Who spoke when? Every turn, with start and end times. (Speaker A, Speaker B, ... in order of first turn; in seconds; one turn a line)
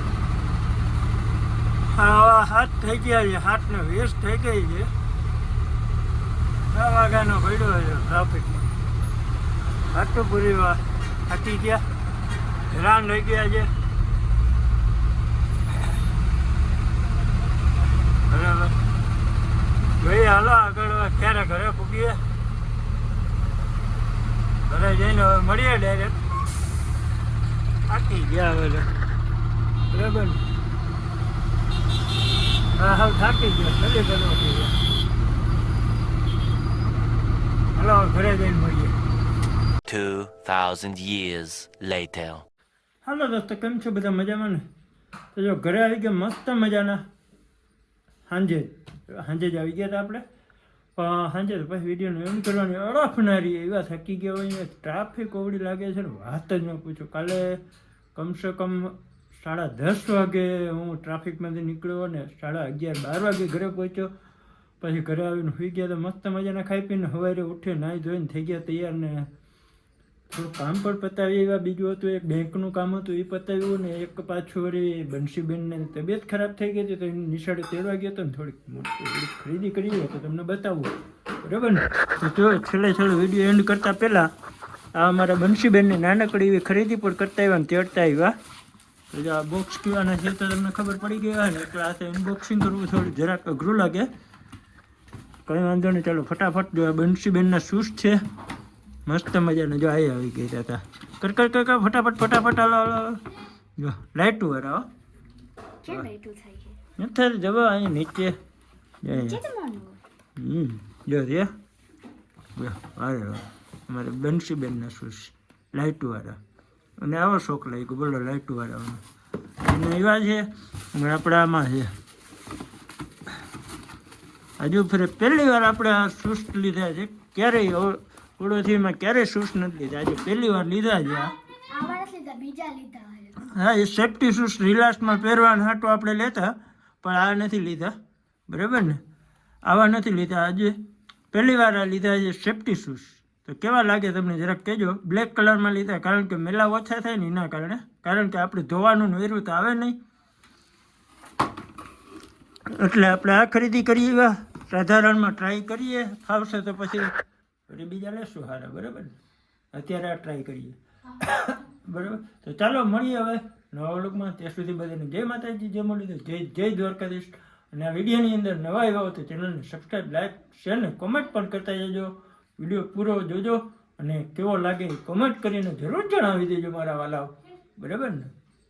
Speaker A: 1.9-4.9
Speaker A: 6.7-8.6
Speaker A: 9.9-11.8
Speaker A: 12.7-13.7
Speaker A: 18.3-18.8
Speaker A: 20.0-22.2
Speaker A: 24.7-26.2
Speaker A: 27.9-28.9
Speaker A: 29.9-30.4
Speaker A: 32.8-34.8
Speaker A: 37.8-39.0
Speaker B: 39.9-42.5
Speaker A: 43.0-44.6
Speaker A: 45.4-47.0
Speaker A: 48.3-50.2
Speaker A: 51.0-57.6
Speaker A: 58.1-64.1
Speaker A: 64.8-69.3
Speaker A: 70.3-84.3
Speaker A: 84.9-88.3
Speaker A: 89.1-94.1
Speaker A: 95.5-98.2
Speaker A: 99.1-103.2
Speaker A: 103.8-104.9
Speaker C: 105.8-106.8
Speaker A: 107.0-108.4
Speaker A: 109.0-109.4
Speaker C: 109.1-110.0
Speaker A: 110.4-111.5
Speaker A: 112.6-116.4
Speaker A: 117.0-119.0
Speaker A: 119.6-121.9
Speaker A: 124.6-131.3
Speaker C: 131.7-133.4
Speaker A: 133.4-137.9
Speaker A: 138.5-139.0
Speaker A: 139.7-140.8
Speaker A: 141.3-150.0
Speaker A: 152.7-157.2
Speaker A: 157.7-159.2
Speaker A: 159.7-178.3